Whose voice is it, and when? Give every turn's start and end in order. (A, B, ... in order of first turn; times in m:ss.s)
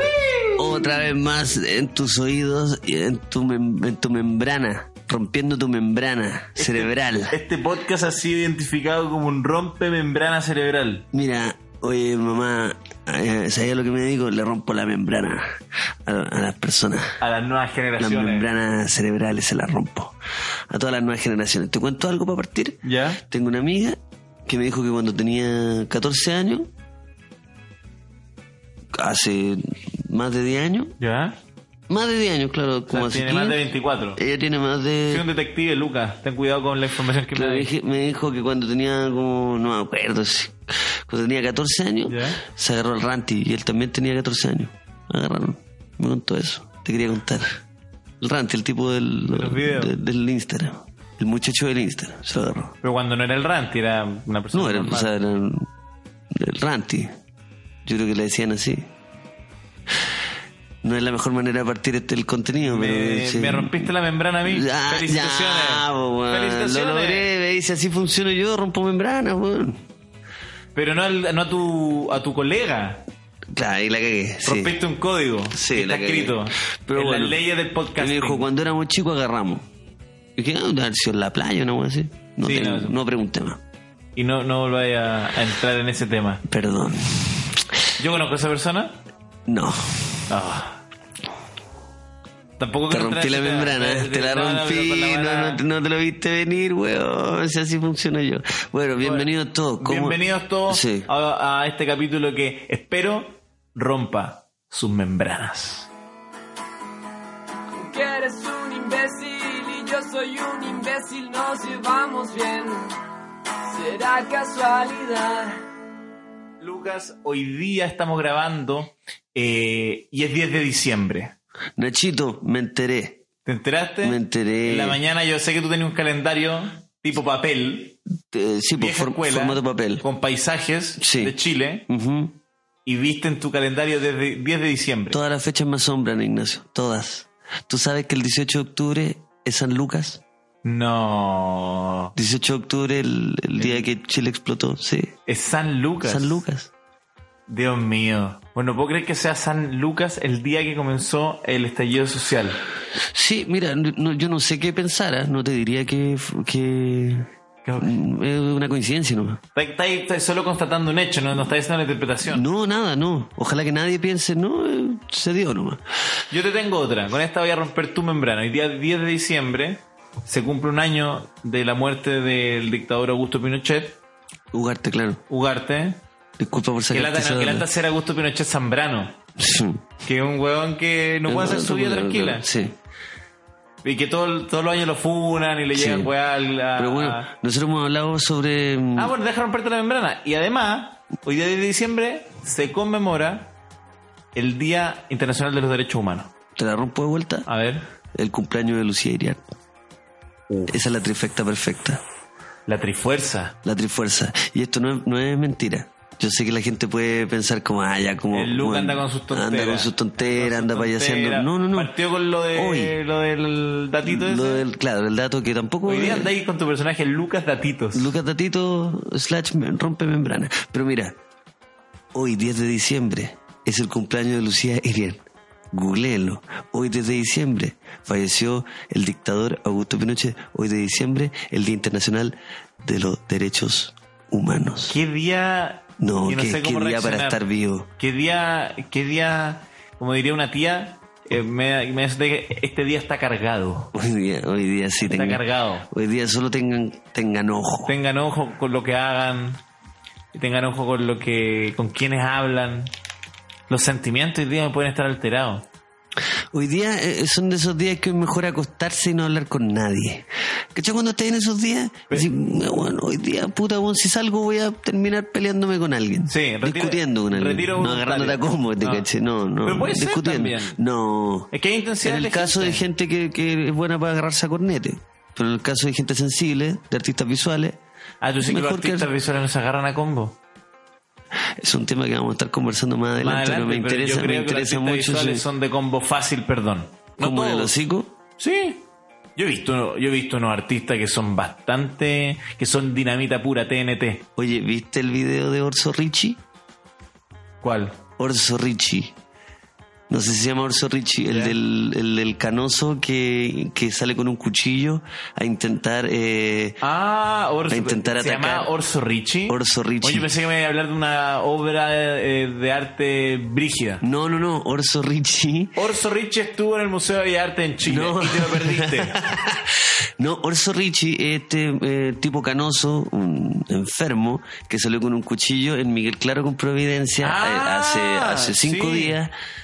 0:00.2-0:00.5 A
0:00.6-0:07.3 B
0:06.6-0:11.0 A
0:11.1-0:17.2 B
0:17.2-0:18.5 A
0:18.0-0:20.2 B
0:20.7-0:26.7 B
0:22.8-0:23.2 A
0:28.9-0:30.9 B
0:31.0-0:31.4 A
0:31.9-0:33.6 B
0:32.9-0:34.2 A
0:34.2-0:35.2 B
0:35.1-0:37.7 A
0:37.3-0:47.6 B
0:42.0-0:42.4 A
0:48.2-0:52.7 B
0:49.3-0:49.9 A
0:52.8-0:55.1 A
0:54.5-0:55.7 B
0:56.3-0:57.1 B
0:57.8-0:58.9 B
1:00.8-1:03.9 B
1:02.6-1:07.3 A
1:04.4-1:09.8 B
1:10.7-1:13.0 A
1:13.5-1:14.8 B
1:14.4-1:18.5 A
1:15.5-1:17.4 B
1:18.0-1:19.7 B
1:20.4-1:23.6 B
1:22.4-1:23.0 A
1:24.2-1:26.4 A
1:26.5-1:27.6 B
1:28.0-1:29.0 A
1:29.5-1:30.3 B
1:30.3-1:30.8 A
1:32.6-1:35.6 A
1:32.9-1:41.1 B
1:39.0-1:45.9 A
1:47.8-1:52.9 C
1:53.7-1:55.6 C
1:56.6-2:01.4 A
2:01.8-2:03.2 B
2:03.4-2:08.0 A
2:04.0-2:05.0 B
2:08.3-2:10.0 B
2:08.8-2:11.9 A
2:11.0-2:11.3 B
2:11.9-2:12.4 B
2:12.8-2:15.2 A
2:15.1-2:20.2 B
2:20.6-2:22.1 A
2:22.2-2:25.1 B
2:23.6-2:23.9 A
2:25.3-2:26.4 A
2:26.0-2:26.7 B
2:27.5-2:32.6 A
2:33.0-2:39.4 B
2:37.6-2:38.0 A
2:39.5-2:42.4 A
2:42.2-2:45.8 B
2:46.3-2:54.0 A
2:54.5-2:55.2 B
2:55.3-2:56.0 A
2:56.4-2:57.6 B
2:56.9-2:59.2 A
2:59.4-2:59.8 B
3:00.0-3:02.4 A
3:01.3-3:02.8 B
3:03.8-3:07.3 A
3:05.7-3:06.1 B
3:06.7-3:09.1 B
3:09.0-3:13.5 A
3:14.3-3:16.3 A
3:16.6-3:17.5 B
3:17.5-3:17.8 A
3:18.1-3:19.4 B
3:20.7-3:22.0 B
3:22.7-3:23.5 A
3:23.6-3:31.9 B
3:28.3-3:34.6 A
3:32.5-3:33.0 B
3:34.0-3:36.3 B
3:35.9-3:38.1 A
3:37.9-3:41.1 B
3:42.1-3:55.0 B
3:54.9-3:57.4 A
3:56.0-3:57.9 B
3:58.0-4:03.9 A
4:03.9-4:07.9 B
4:05.0-4:05.9 A
4:07.8-4:09.6 A
4:10.3-4:12.9 A
4:13.7-4:15.6 A
4:16.5-4:31.5 B
4:26.2-4:29.1 A
4:29.6-4:30.8 A
4:31.5-4:32.8 A
4:32.0-4:37.8 B
4:38.2-4:40.4 A
4:38.4-4:39.1 B
4:41.6-4:45.4 B
4:43.2-4:47.7 A
4:47.2-4:48.1 B
4:48.4-4:48.8 A
4:49.4-4:54.2 A
4:54.4-4:56.4 B
4:57.6-4:58.0 A
4:58.2-4:59.1 B
5:00.1-5:06.8 B
5:01.3-5:01.6 A
5:06.8-5:14.0 A
5:07.7-5:08.7 B
5:09.5-5:10.3 B
5:14.0-5:15.8 B
5:15.8-5:19.2 A
5:17.8-5:29.3 B
5:27.2-5:29.2 A